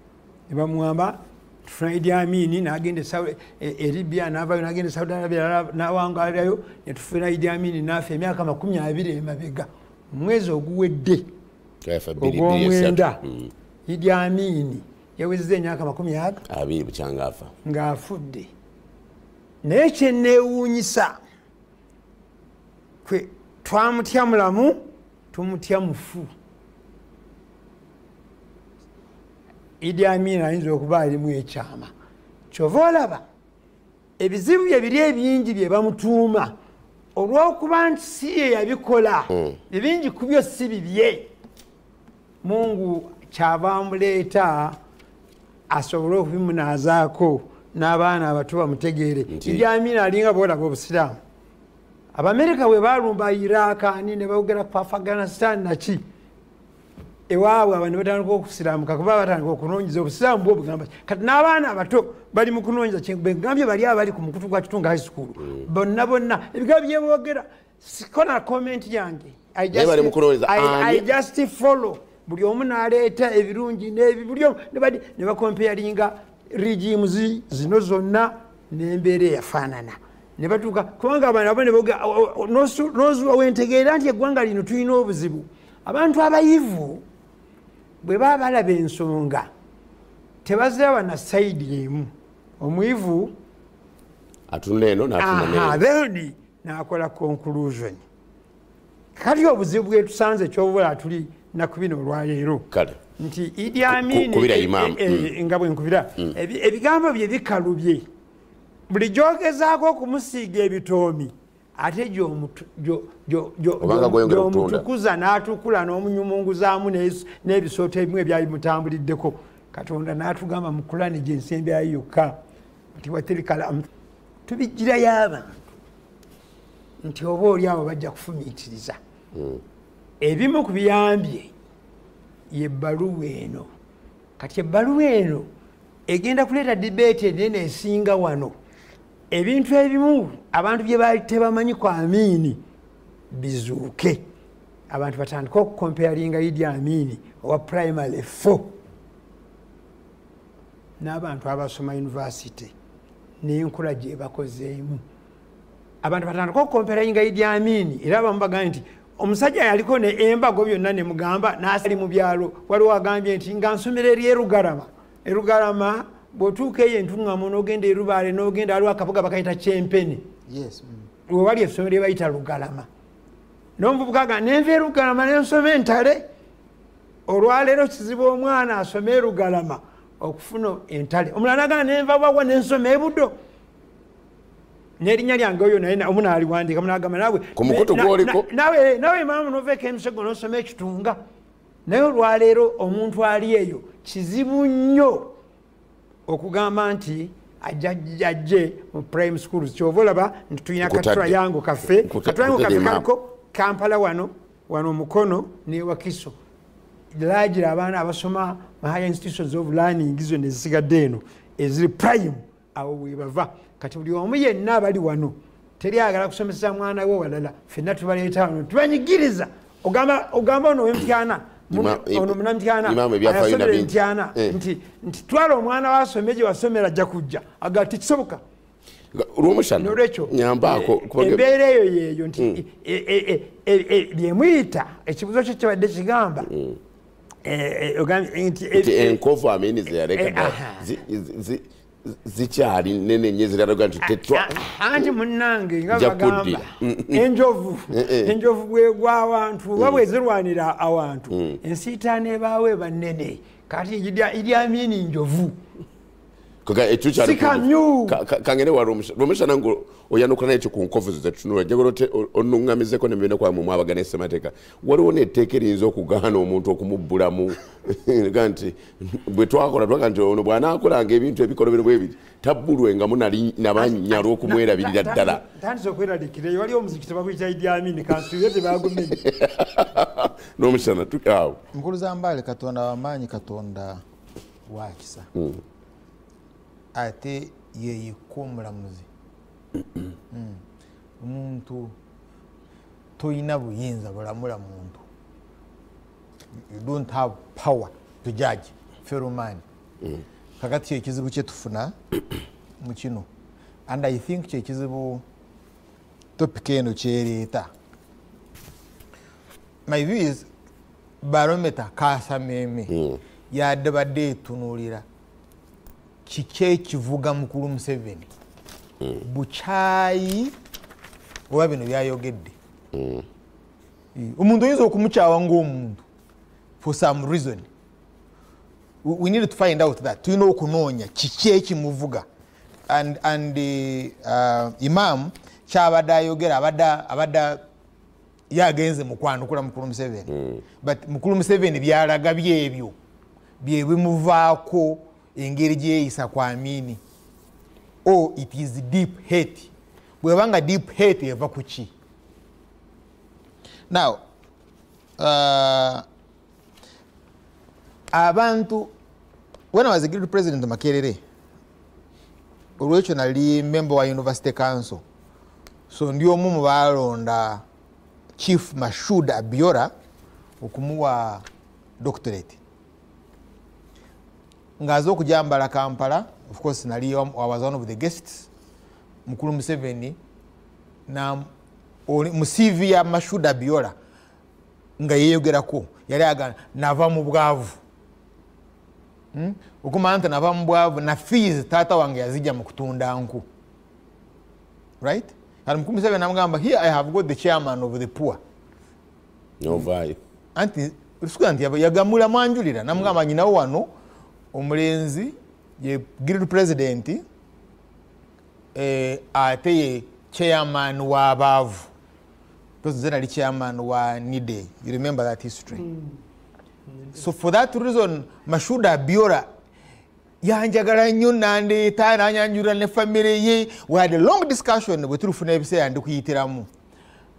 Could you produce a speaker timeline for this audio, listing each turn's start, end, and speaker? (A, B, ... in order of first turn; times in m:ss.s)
0:00.5-0:11.3 A
0:11.8-0:13.5 B
0:12.2-0:13.2 A
0:13.9-0:16.4 A
0:16.5-0:17.5 B
0:17.6-0:18.5 A
0:19.6-0:21.2 A
0:23.0-0:26.3 A
0:29.8-0:31.9 A
0:32.5-0:33.2 A
0:34.2-0:36.6 A
0:37.2-0:41.3 A
0:42.4-0:44.8 A
0:45.7-0:51.2 A
0:49.3-0:49.6 B
0:52.1-0:56.0 A
0:57.3-1:27.0 A
1:09.7-1:11.0 B
1:28.0-1:29.5 A
1:30.4-1:33.3 A
1:34.5-1:35.8 B
1:35.2-1:38.0 A
1:39.2-1:42.6 A
1:42.7-1:43.0 B
1:43.2-1:48.1 A
1:43.9-1:45.3 B
1:48.9-2:02.4 A
1:53.8-1:54.8 B
2:03.0-2:03.9 A
2:04.5-2:05.6 A
2:07.0-2:09.0 A
2:10.2-2:11.5 A
2:12.5-2:13.7 A
2:14.4-2:15.5 A
2:16.1-2:18.5 A
2:19.3-2:22.6 A
2:23.3-2:24.2 A
2:24.9-2:28.7 A
2:31.0-2:32.7 A
2:33.4-2:35.0 A
2:36.0-2:50.3 A
2:50.5-2:51.0 C
2:51.3-2:52.9 A
2:53.8-2:56.2 A
2:57.3-3:03.3 A
3:05.0-3:11.2 A
3:07.6-3:08.4 B
3:11.9-3:15.3 A
3:16.3-3:26.4 A
3:20.8-3:21.4 B
3:22.0-3:23.0 B
3:27.1-3:48.4 A
3:41.7-3:44.6 B
3:49.1-3:51.5 B
3:49.8-3:56.5 A
3:56.5-3:56.8 B
3:57.4-3:59.2 A
3:58.7-4:04.5 B
4:00.2-4:00.8 A
4:04.0-4:15.6 A
4:05.9-4:07.2 B
4:07.9-4:08.3 B
4:11.3-4:11.6 B
4:16.6-4:35.4 B
4:17.2-4:18.2 A
4:33.8-4:39.2 A
4:39.2-4:41.6 B
4:41.7-4:44.0 C
4:44.7-4:45.3 C
4:46.9-4:49.0 C
4:50.3-4:50.6 C
4:51.2-4:51.9 C
4:53.2-4:55.0 C
4:56.7-4:59.6 C
5:00.6-5:01.9 C
5:02.8-5:03.2 C
5:03.9-5:05.2 C
5:06.4-5:07.7 C
5:09.9-5:10.4 C
5:11.2-5:12.9 C
5:12.9-5:13.2 B
5:13.5-5:15.0 C
5:16.2-5:18.3 C
5:19.2-5:20.5 C
5:21.5-5:22.5 C
5:22.9-5:23.2 B
5:24.2-5:26.0 C
5:26.8-5:27.7 C
5:29.0-5:32.2 C
5:32.9-5:37.6 C
5:38.5-5:42.9 C
5:43.6-5:47.0 C
5:48.0-5:51.9 C
5:53.9-5:54.2 C
5:55.2-5:56.0 C
5:58.1-5:58.9 C
5:59.7-6:01.2 C
6:02.8-6:05.0 C
6:05.9-6:07.6 C
6:08.4-6:09.9 C
6:10.6-6:11.4 C
6:12.0-6:12.6 C
6:14.8-6:18.5 C
6:19.2-6:20.2 C
6:21.1-6:21.5 C
6:22.1-6:23.9 C
6:25.0-6:27.8 C
6:29.3-6:33.4 C
6:35.0-6:38.4 C
6:39.6-6:40.2 B
6:40.6-6:43.9 C
6:44.5-6:47.2 C
6:48.7-6:51.9 C
6:52.8-6:55.9 C
6:57.1-6:59.5 C
7:00.4-7:06.7 C